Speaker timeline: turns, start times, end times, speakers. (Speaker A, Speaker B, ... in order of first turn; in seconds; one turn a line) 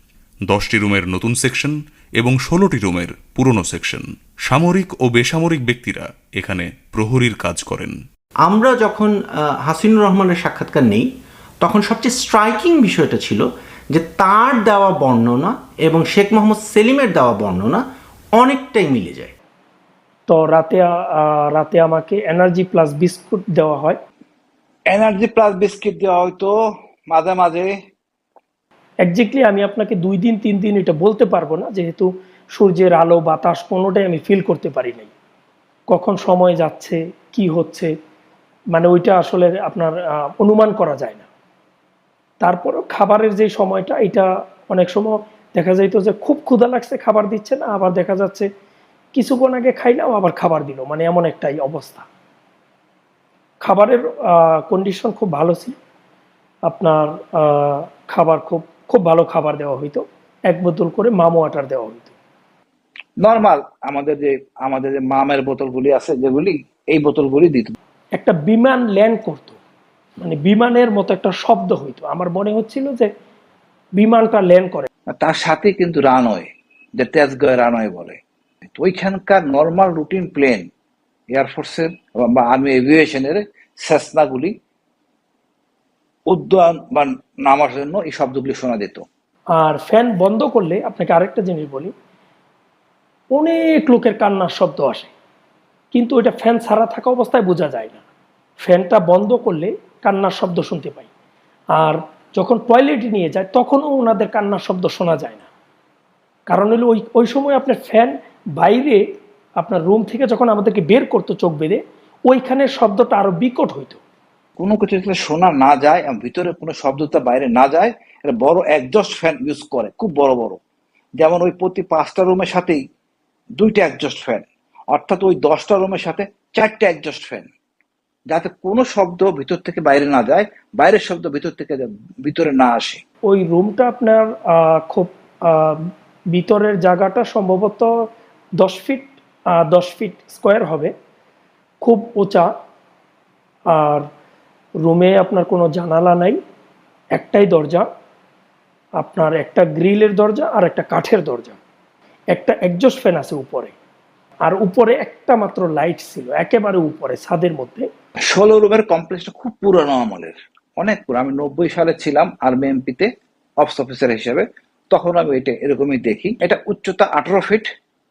Speaker A: 0.5-8.0
Speaker B: 8.4-11.1
Speaker B: 11.6-17.8
Speaker B: 18.4-19.3
Speaker C: 20.3-24.0
Speaker D: 24.9-26.5
Speaker D: 27.1-27.7
Speaker C: 29.0-35.1
Speaker C: 35.9-37.9
Speaker C: 38.7-41.3
Speaker C: 42.4-48.5
Speaker C: 49.1-52.0
Speaker C: 53.6-55.8
Speaker C: 56.7-62.1
Speaker D: 63.2-67.7
Speaker C: 68.2-69.6
Speaker C: 70.2-73.1
Speaker C: 74.0-74.9
Speaker D: 75.1-78.2
Speaker D: 78.7-80.7
Speaker D: 81.3-84.5
Speaker D: 86.3-89.0
Speaker C: 89.6-91.9
Speaker C: 93.3-95.1
Speaker C: 95.9-98.0
Speaker C: 98.6-101.1
Speaker C: 101.7-105.4
Speaker C: 106.5-109.0
Speaker C: 109.6-114.0
Speaker D: 114.6-120.6
Speaker D: 121.2-122.8
Speaker D: 123.6-127.5
Speaker D: 128.3-133.0
Speaker C: 133.3-137.9
Speaker C: 138.6-140.9
Speaker C: 141.8-142.5
Speaker C: 143.7-144.1
Speaker C: 144.8-146.4
Speaker C: 147.1-147.9
Speaker C: 149.0-151.6
Speaker C: 152.3-153.7
Speaker C: 154.4-157.9
Speaker D: 158.3-167.7